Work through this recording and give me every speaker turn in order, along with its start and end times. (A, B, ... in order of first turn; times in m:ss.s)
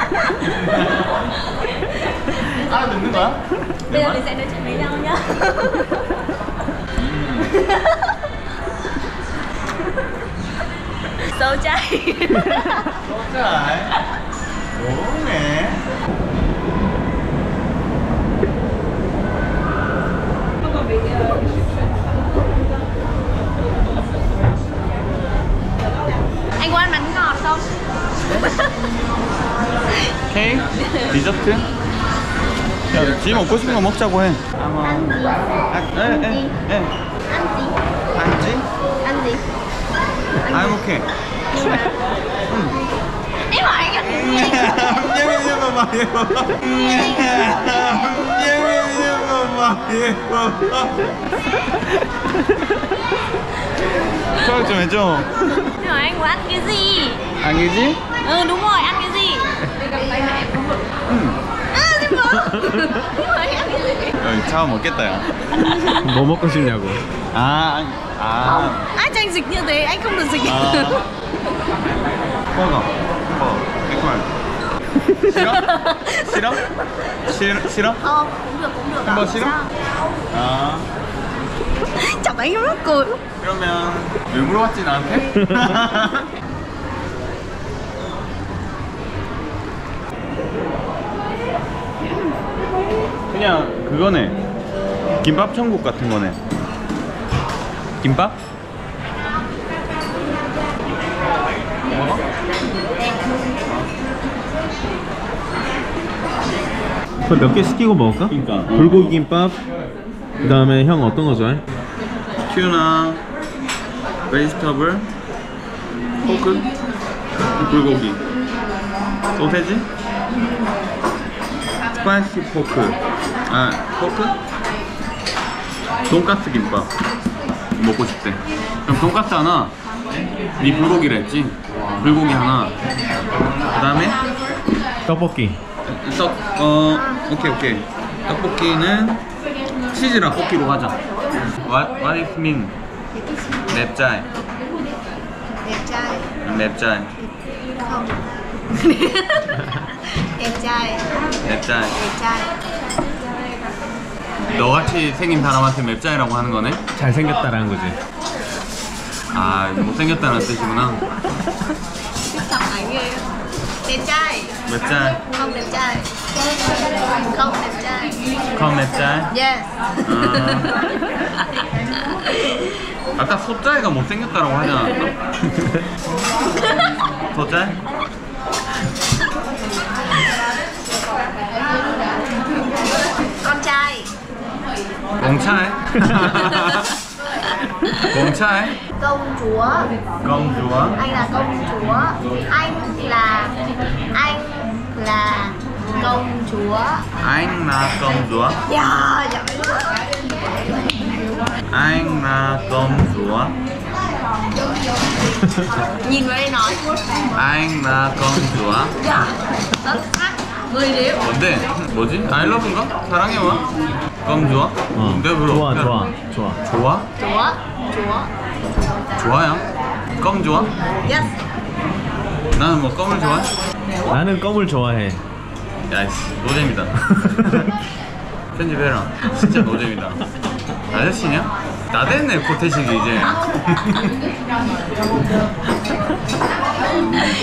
0:00.1-0:00.4 A
0:00.4-0:01.2 B
0:02.4-0:04.2 B
0:03.9-0:06.1 A
0:07.0-0:07.5 B
0:07.5-0:08.0 A
0:11.2-0:12.9 A
0:13.0-0:13.9 B
0:14.7-0:15.8 B
0:26.6-0:27.7 A
0:28.4-0:28.7 A
0:30.3-0:31.7 B
0:32.9-0:35.2 B
0:34.8-0:36.6 A
0:35.7-0:36.9 B
0:37.3-0:37.8 A
0:38.1-0:38.6 B
0:39.0-0:39.4 A
0:40.4-0:40.8 A
0:40.5-0:41.8 B
0:41.5-0:42.0 A
0:42.5-0:42.8 B
0:43.5-0:44.9 A
0:44.0-0:51.1 B
0:52.2-0:52.7 C
0:54.4-0:55.3 B
0:55.7-0:57.2 A
0:57.4-0:58.0 B
0:58.2-0:59.5 A
1:01.1-1:01.4 B
1:01.7-1:04.1 A
1:04.2-1:05.3 B
1:05.6-1:06.0 A
1:05.9-1:07.0 C
1:07.3-1:08.8 B
1:08.4-1:11.0 A
1:10.4-1:11.0 B
1:12.5-1:14.3 B
1:15.2-1:16.6 B
1:15.4-1:16.6 A
1:17.2-1:18.0 B
1:18.0-1:19.7 A
1:19.0-1:19.6 B
1:20.3-1:20.9 B
1:22.0-1:23.2 A
1:23.4-1:26.3 B
1:25.5-1:25.8 C
1:33.3-1:34.4 B
1:35.2-1:36.4 B
1:38.0-1:38.4 B
1:41.9-1:42.2 B
1:47.2-1:49.6 C
1:48.3-1:49.2 B
1:50.4-1:51.6 C
1:52.4-1:53.2 B
1:54.3-1:55.1 B
1:56.2-1:56.6 B
1:57.5-1:58.2 B
1:59.4-1:59.9 B
2:01.9-2:04.3 B
2:06.1-2:06.9 B
2:07.8-2:09.7 B
2:10.6-2:12.7 B
2:13.7-2:14.2 B
2:15.0-2:15.6 C
2:15.8-2:19.2 B
2:16.9-2:17.2 A
2:19.9-2:21.0 B
2:21.6-2:22.7 B
2:23.7-2:24.3 B
2:25.6-2:26.3 A
2:26.4-2:27.1 B
2:27.2-2:31.0 A
2:31.4-2:31.9 B
2:32.0-2:32.6 A
2:34.5-2:36.8 B
2:36.9-2:38.0 C
2:39.3-2:41.0 B
2:42.3-2:43.3 A
2:43.8-2:44.6 A
2:44.6-2:45.2 B
2:45.3-2:46.1 A
2:47.3-2:48.2 A
2:48.5-2:49.3 B
2:49.3-2:50.7 A
2:50.0-2:50.8 B
2:52.3-2:52.7 A
2:53.2-2:55.8 B
2:57.3-2:57.8 B
3:03.4-3:04.1 A
3:05.2-3:06.9 B
3:08.0-3:08.8 B
3:09.0-3:09.9 A
3:10.2-3:11.0 B
3:11.0-3:13.5 A
3:14.1-3:17.0 A
3:17.2-3:18.6 B
3:18.7-3:20.1 A
3:21.7-3:23.6 B
3:26.0-3:27.0 A
3:27.3-3:29.0 B
3:29.0-3:31.2 A
3:31.2-3:33.6 B
3:34.2-3:36.1 B
3:35.0-3:36.6 C
3:36.7-3:37.0 B
3:37.2-3:38.3 A
3:39.2-3:39.6 B
3:40.2-3:40.7 B
3:41.0-3:41.3 A
3:42.5-3:43.5 B
3:44.1-3:45.2 C
3:45.9-3:47.7 B
3:47.1-3:47.6 C
3:48.5-3:50.2 B
3:50.9-3:54.1 B